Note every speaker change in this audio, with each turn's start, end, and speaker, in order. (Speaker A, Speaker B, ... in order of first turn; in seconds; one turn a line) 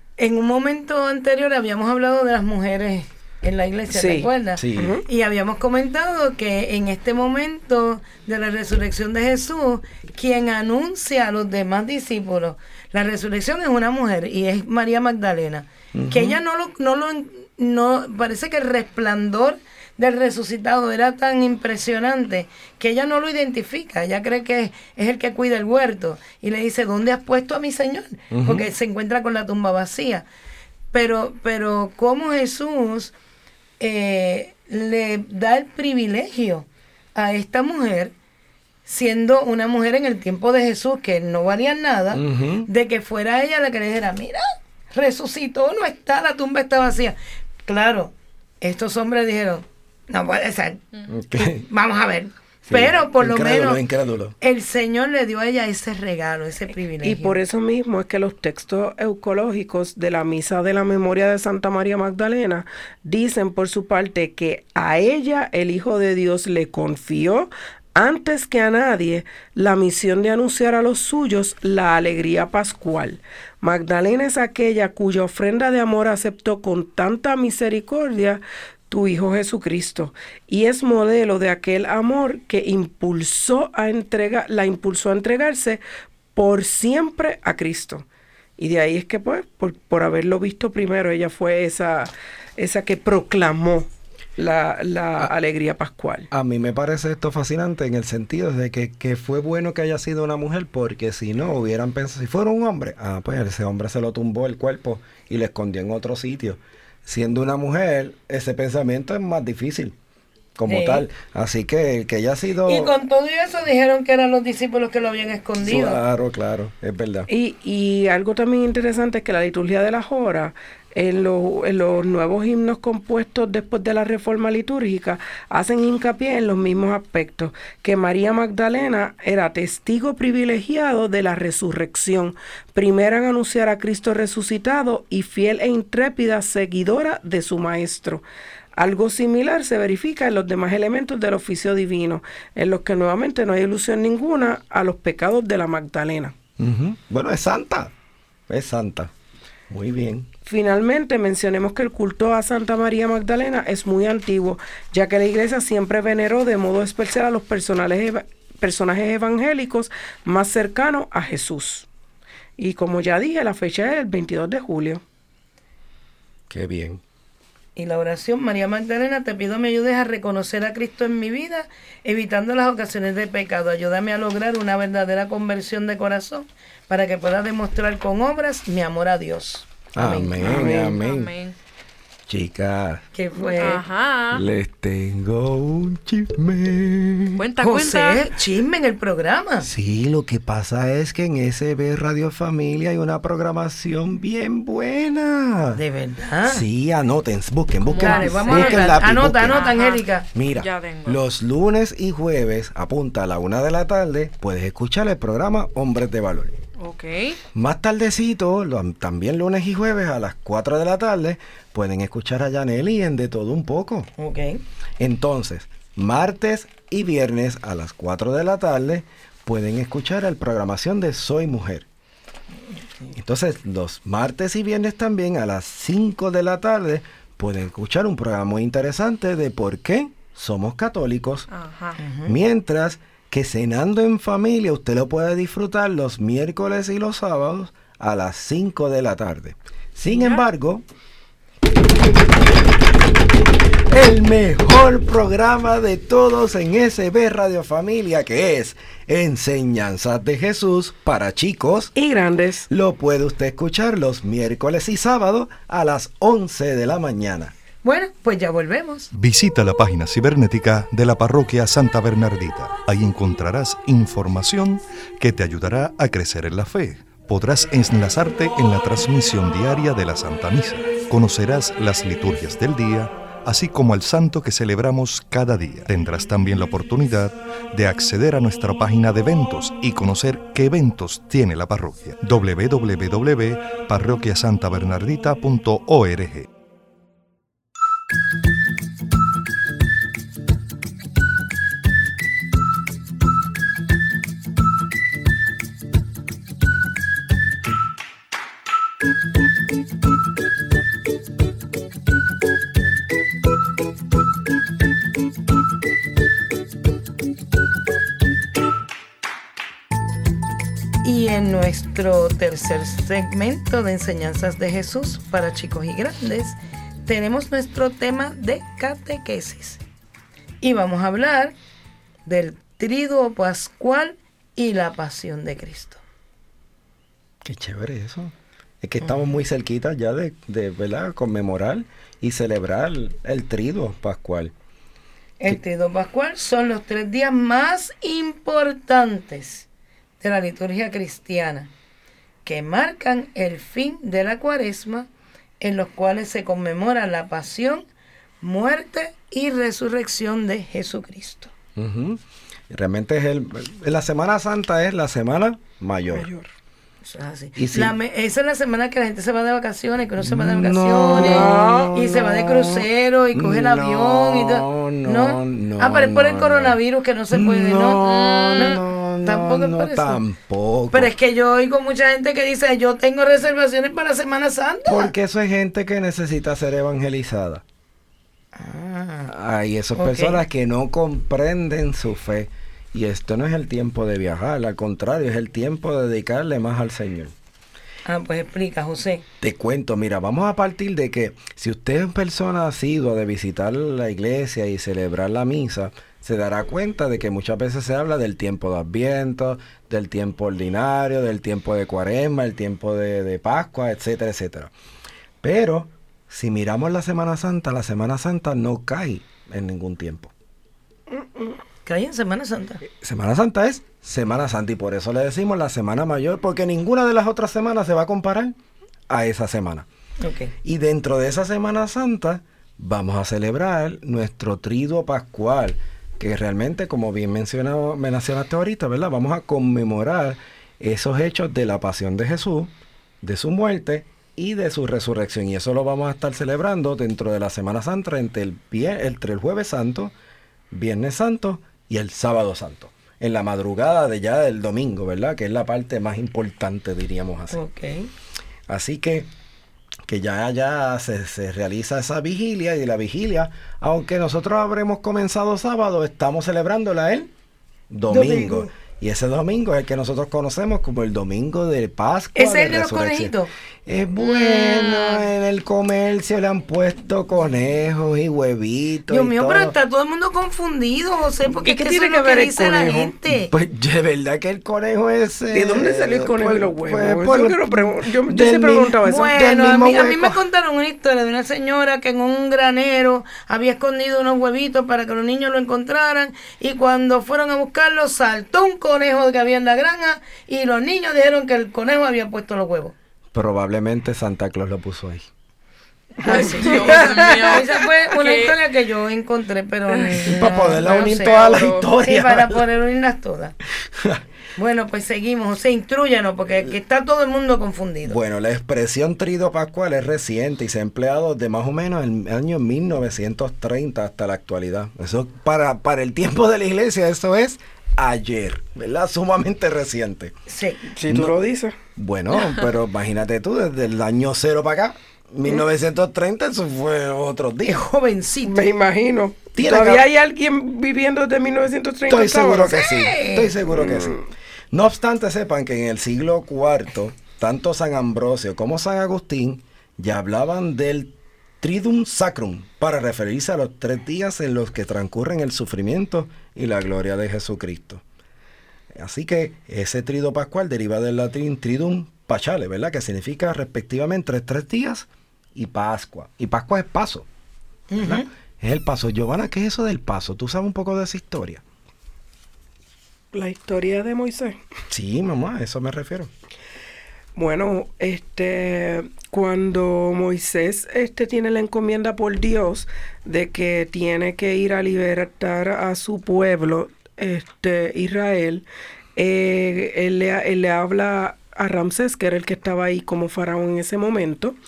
Speaker A: 0.2-30.3
Speaker B: 3.9-5.0
Speaker C: 4.6-5.0
Speaker C: 15.9-16.4
Speaker C: 28.3-28.7
Speaker A: 30.9-33.1
Speaker A: 33.8-38.1
Speaker A: 38.9-50.8
Speaker C: 42.1-42.7
Speaker C: 51.1-51.6
Speaker A: 51.4-53.8
Speaker C: 52.7-54.4
Speaker A: 54.4-57.4
Speaker B: 57.0-85.8
Speaker B: 86.4-88.1
Speaker B: 88.6-96.3
Speaker C: 96.3-110.0
Speaker C: 110.6-112.9
Speaker A: 110.7-111.0
Speaker A: 112.7-116.0
Speaker C: 115.6-117.3
Speaker B: 117.3-138.2
Speaker B: 138.8-146.3
Speaker C: 146.6-147.9
Speaker C: 148.5-149.1
Speaker C: 149.7-150.3
Speaker B: 150.4-161.9
Speaker B: 162.6-165.0
Speaker C: 166.5-167.0
Speaker A: 167.8-180.4
Speaker C: 179.9-181.3
Speaker B: 180.4-180.9
Speaker D: 180.6-181.6
Speaker C: 182.3-183.1
Speaker A: 183.1-183.8
Speaker D: 183.6-184.4
Speaker C: 184.3-187.4
Speaker D: 187.3-188.2
Speaker A: 187.6-189.7
Speaker C: 189.6-195.8
Speaker A: 195.8-196.6
Speaker C: 196.4-199.7
Speaker D: 197.8-201.2
Speaker A: 198.0-200.3
Speaker C: 200.3-206.6
Speaker D: 206.8-207.4
Speaker C: 207.5-214.1
Speaker A: 214.2-214.6
Speaker C: 215.0-221.9
Speaker C: 223.1-231.5
Speaker D: 231.5-232.0
Speaker A: 232.0-232.3
Speaker C: 232.2-240.8
Speaker D: 240.1-240.4
Speaker C: 243.9-251.9
Speaker B: 251.9-252.7
Speaker C: 252.7-257.5
Speaker A: 257.8-259.1
Speaker E: 259.1-286.5
Speaker A: 311.0-319.8
Speaker A: 320.6-321.6
Speaker A: 322.3-326.0
Speaker C: 327.4-334.5
Speaker A: 335.4-339.7
Speaker A: 340.2-341.7
Speaker A: 342.4-345.1
Speaker A: 345.6-347.8
Speaker A: 348.4-351.5
Speaker C: 351.8-356.3
Speaker B: 356.1-356.5
Speaker A: 357.0-370.2
Speaker C: 357.6-357.9
Speaker C: 360.2-366.8
Speaker B: 361.2-361.9
Speaker C: 367.3-371.1
Speaker D: 368.1-368.8
Speaker A: 370.9-375.1
Speaker C: 374.9-377.6
Speaker A: 378.6-379.3
Speaker C: 379.3-387.3
Speaker A: 379.9-380.4
Speaker A: 388.1-389.2
Speaker C: 389.4-404.7
Speaker C: 405.4-410.3
Speaker B: 411.1-411.4
Speaker A: 411.9-412.8
Speaker C: 412.9-418.6
Speaker C: 419.1-419.9
Speaker A: 420.2-420.5
Speaker C: 420.6-440.1
Speaker C: 440.7-447.6
Speaker A: 447.5-448.1
Speaker C: 448.7-449.3
Speaker C: 450.1-457.3
Speaker C: 457.9-463.4
Speaker A: 458.1-458.7
Speaker A: 462.4-463.5
Speaker C: 463.9-469.8
Speaker D: 464.2-465.2
Speaker A: 469.1-473.5
Speaker B: 471.6-473.1
Speaker C: 473.3-480.4
Speaker B: 475.5-479.4
Speaker A: 479.0-492.9
Speaker C: 493.3-495.3
Speaker A: 496.2-503.6
Speaker D: 496.3-498.6
Speaker C: 500.2-502.6
Speaker D: 500.7-501.9
Speaker C: 503.9-504.2
Speaker A: 504.6-508.2
Speaker C: 508.1-520.4
Speaker A: 520.5-520.8
Speaker B: 520.9-521.7
Speaker C: 521.1-521.4
Speaker C: 522.0-527.9
Speaker A: 527.7-528.6
Speaker B: 528.5-532.9
Speaker C: 529.5-530.1
Speaker C: 532.1-548.0
Speaker A: 532.9-533.5
Speaker B: 533.8-534.2
Speaker C: 548.9-557.3
Speaker A: 557.9-558.3
Speaker C: 558.0-561.6
Speaker B: 563.3-564.6
Speaker C: 564.9-566.3
Speaker B: 567.4-584.6